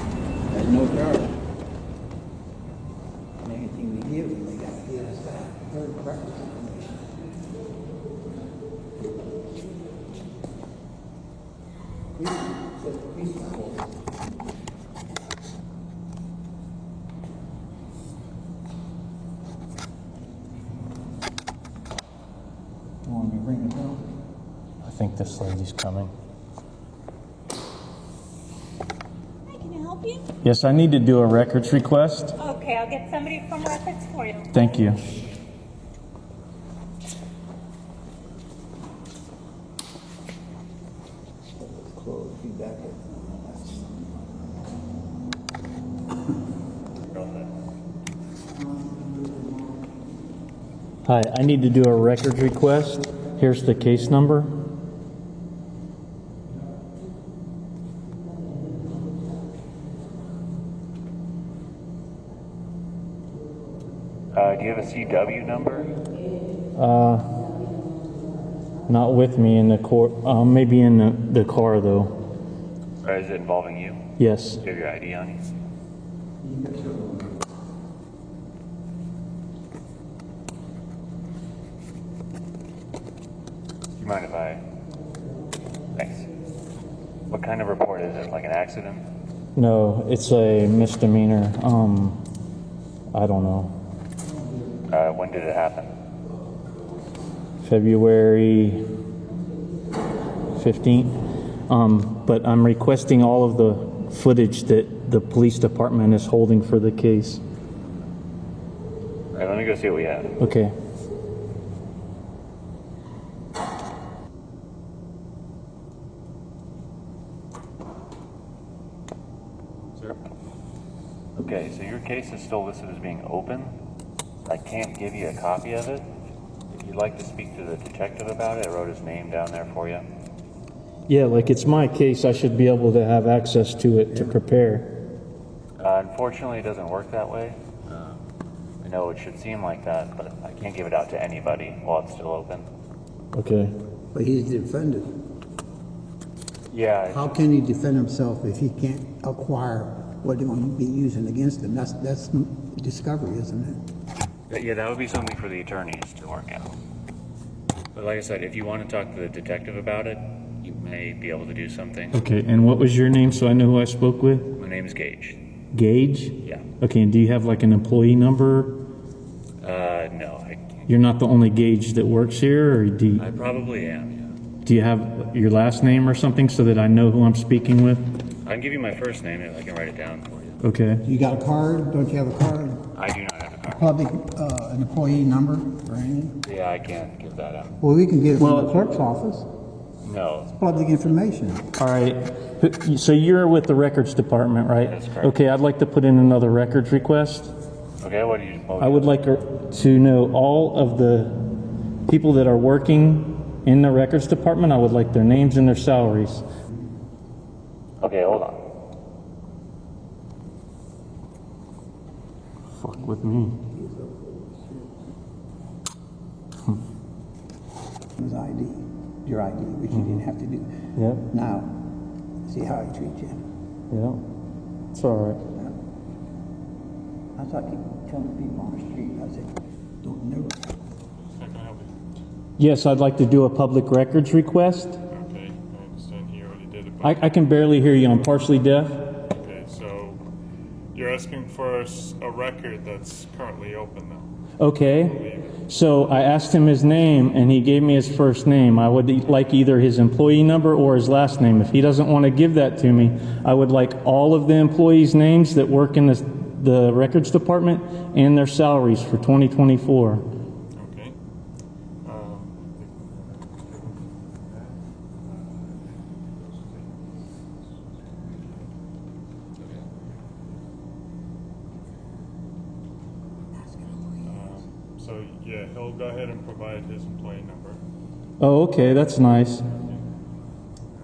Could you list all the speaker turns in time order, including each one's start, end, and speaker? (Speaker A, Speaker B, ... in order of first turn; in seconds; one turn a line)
Speaker A: 0.5-1.4
Speaker A: 3.4-7.1
Speaker A: 12.1-13.9
Speaker A: 23.1-24.0
Speaker B: 24.8-26.1
Speaker C: 29.5-30.3
Speaker B: 30.4-32.3
Speaker C: 32.4-34.5
Speaker B: 34.5-35.0
Speaker A: 41.6-44.1
Speaker D: 47.1-47.5
Speaker B: 51.1-54.5
Speaker D: 64.3-66.0
Speaker B: 66.8-67.3
Speaker B: 68.9-72.1
Speaker D: 73.0-74.0
Speaker B: 74.2-74.6
Speaker D: 74.6-75.5
Speaker A: 76.6-77.0
Speaker D: 84.0-84.6
Speaker D: 86.0-86.3
Speaker D: 87.3-89.0
Speaker B: 89.6-92.2
Speaker B: 93.1-93.7
Speaker D: 94.9-95.9
Speaker B: 97.6-98.8
Speaker B: 100.5-101.1
Speaker B: 101.7-107.4
Speaker D: 109.3-110.4
Speaker B: 110.4-110.7
Speaker D: 121.4-123.7
Speaker D: 124.5-126.1
Speaker D: 126.7-130.0
Speaker B: 131.1-134.9
Speaker D: 135.8-138.2
Speaker D: 138.8-142.7
Speaker B: 143.3-143.7
Speaker A: 144.1-145.1
Speaker D: 146.7-147.4
Speaker A: 147.1-153.8
Speaker D: 154.5-156.7
Speaker D: 157.9-162.2
Speaker B: 162.1-164.5
Speaker D: 164.6-165.4
Speaker B: 165.7-168.8
Speaker D: 169.6-170.9
Speaker B: 170.9-173.2
Speaker D: 173.2-174.4
Speaker B: 174.7-178.1
Speaker D: 178.5-180.6
Speaker B: 180.6-181.0
Speaker A: 181.1-182.8
Speaker D: 182.9-183.9
Speaker A: 183.7-186.4
Speaker D: 186.4-187.8
Speaker A: 187.8-189.5
Speaker B: 188.4-189.0
Speaker D: 190.0-190.7
Speaker A: 190.6-191.6
Speaker B: 191.8-197.5
Speaker D: 194.8-195.4
Speaker D: 198.0-199.2
Speaker B: 198.8-201.5
Speaker B: 202.1-206.4
Speaker D: 208.0-208.6
Speaker B: 212.8-213.6
Speaker A: 213.7-215.0
Speaker A: 218.2-220.7
Speaker B: 221.0-221.3
Speaker A: 221.3-221.8
Speaker A: 222.4-223.4
Speaker B: 223.9-224.2
Speaker B: 224.9-225.4
Speaker A: 227.4-229.5
Speaker A: 230.0-230.6
Speaker E: 231.3-231.9
Speaker B: 232.6-235.0
Speaker E: 235.1-237.3
Speaker B: 237.0-239.1
Speaker E: 239.3-240.2
Speaker E: 240.9-244.3
Speaker B: 244.6-260.2
Speaker E: 244.9-245.6
Speaker E: 260.7-261.1
Speaker E: 262.0-264.8
Speaker E: 274.2-277.8
Speaker B: 278.4-279.6